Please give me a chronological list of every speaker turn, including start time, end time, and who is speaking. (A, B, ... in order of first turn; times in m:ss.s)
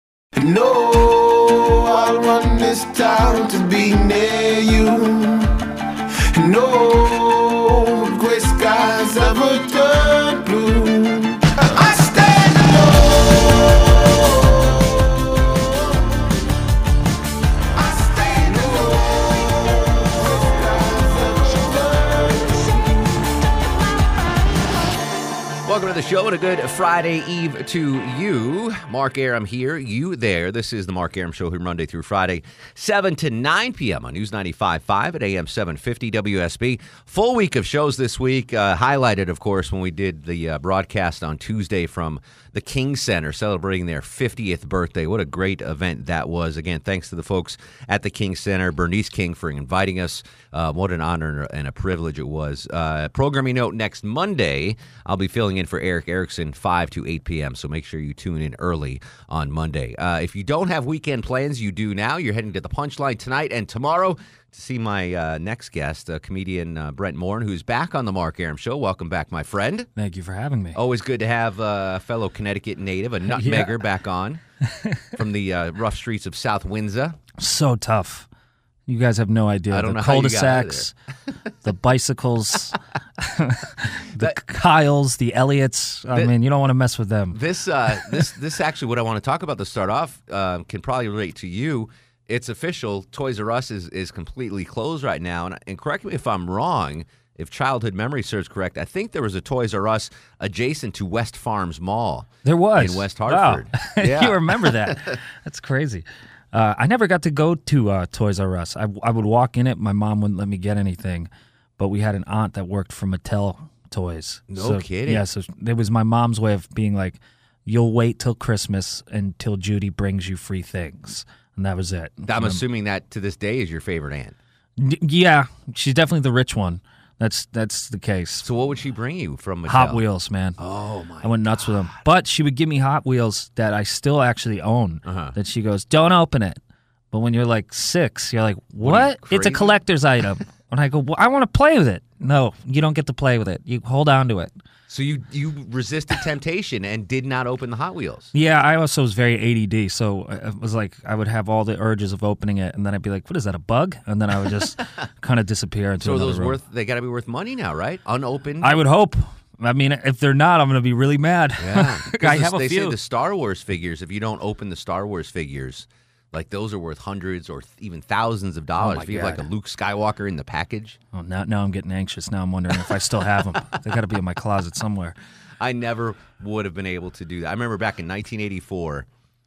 0:00.4-0:05.5 A
0:06.3-0:15.3 A
0:17.8-0:23.1 A
0:25.6-1:09.9 B
1:10.0-1:10.8 C
1:10.7-1:14.4 B
1:13.3-1:13.8 C
1:15.2-1:17.2 B
1:17.4-1:18.3 C
1:18.9-1:20.9 C
1:19.7-1:20.9 B
1:21.6-1:27.4 C
1:27.3-1:45.0 B
1:42.4-2:02.6 C
1:54.5-1:55.2 B
2:02.3-2:04.3 B
2:04.8-2:08.5 C
2:08.4-2:10.0 B
2:09.6-2:10.6 C
2:10.6-2:11.6 B
2:11.2-2:16.6 C
2:15.0-2:15.3 B
2:17.1-2:24.5 C
2:18.8-2:19.8 B
2:24.9-2:28.3 B
2:28.3-2:36.6 C
2:36.0-2:38.8 B
2:38.6-2:43.0 C
2:41.6-2:51.0 B
2:48.8-2:49.4 C
2:51.1-2:55.2 C
2:55.6-2:59.0 B